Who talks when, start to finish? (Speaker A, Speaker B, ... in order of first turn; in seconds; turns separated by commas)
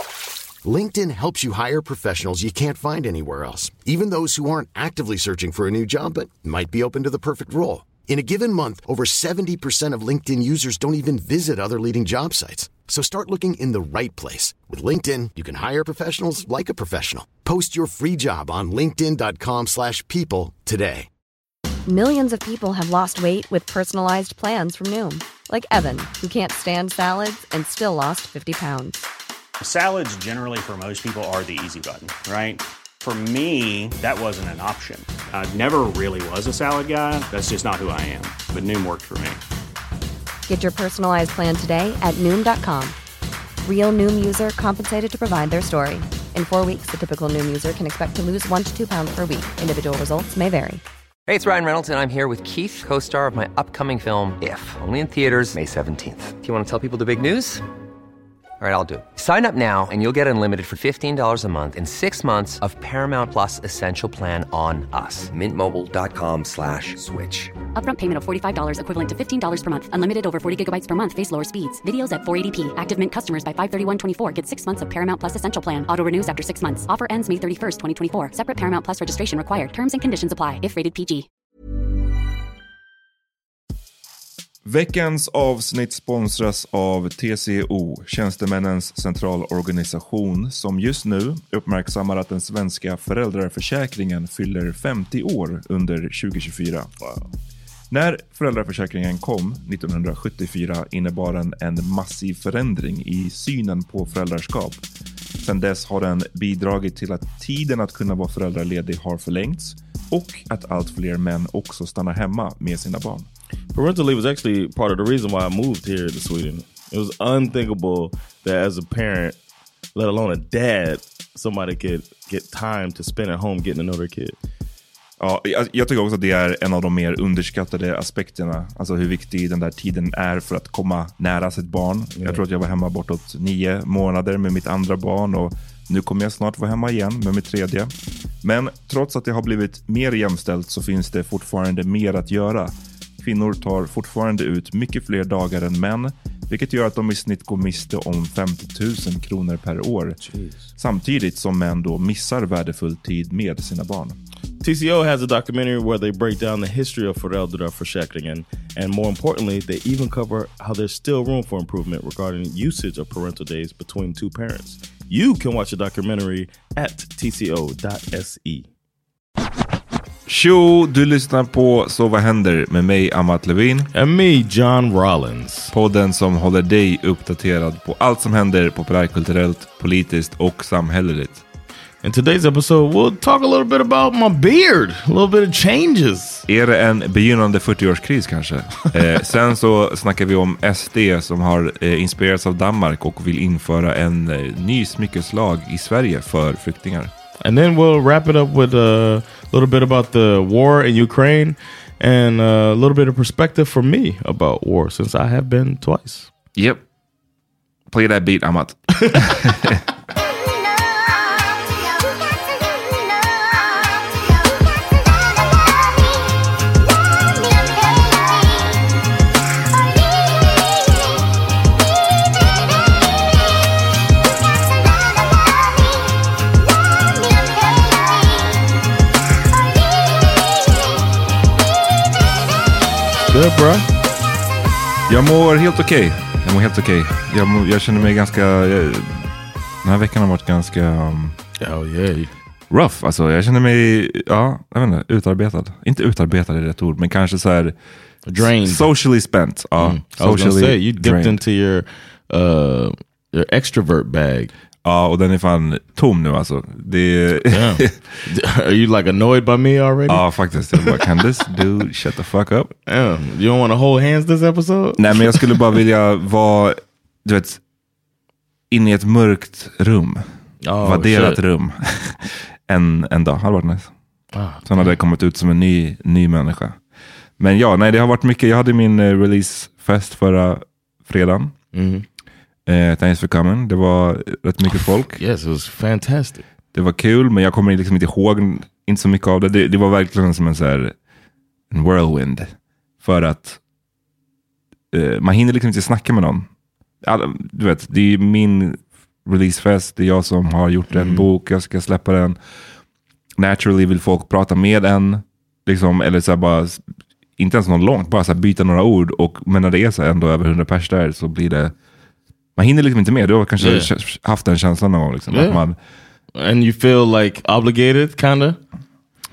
Speaker A: 0.6-21.1, Speaker B: 21.9-29.0, Speaker C: 29.6-39.4, Speaker B: 40.5-43.0, Speaker B: 43.6-50.8, Speaker D: 51.3-57.6, Speaker D: 58.6-67.5, Speaker E: 67.8-81.3, Speaker F: 84.7-96.9, Speaker F: 97.9-104.8, Speaker F: 105.4-113.3, Speaker G: 113.7-119.4, Speaker G: 120.0-124.4, Speaker F: 125.2-150.2, Speaker G: 132.2-132.4, Speaker G: 150.2-150.6, Speaker F: 150.8-154.2, Speaker G: 154.6-168.7, Speaker F: 170.3-173.9, Speaker G: 173.9-175.7, Speaker F: 175.7-181.4, Speaker G: 182.0-186.4, Speaker F: 186.5-197.1, Speaker G: 197.4-206.3, Speaker F: 206.6-206.8, Speaker F: 207.9-209.8, Speaker G: 233.3-233.9, Speaker F: 235.1-239.3, Speaker F: 239.8-241.4, Speaker G: 241.6-242.3, Speaker F: 242.7-247.8, Speaker G: 248.3-248.9, Speaker F: 248.4-251.4, Speaker G: 249.8-254.5, Speaker F: 254.8-257.9, Speaker G: 257.5-261.0, Speaker F: 260.1-262.7, Speaker G: 262.9-265.6, Speaker F: 265.0-267.6, Speaker F: 268.7-270.2, Speaker G: 270.6-271.4, Speaker F: 270.8-273.9, Speaker G: 274.3-274.9, Speaker F: 274.6-276.8, Speaker F: 277.4-281.5, Speaker G: 281.7-282.1, Speaker F: 282.7-285.2, Speaker G: 285.1-286.4, Speaker F: 286.7-290.9, Speaker F: 291.7-293.6, Speaker F: 294.9-296.5, Speaker F: 297.0-302.4, Speaker G: 300.9-301.3, Speaker F: 303.4-306.8, Speaker F: 307.4-311.7, Speaker F: 312.6-315.8, Speaker G: 313.6-313.9, Speaker G: 315.3-315.6, Speaker G: 316.4-318.6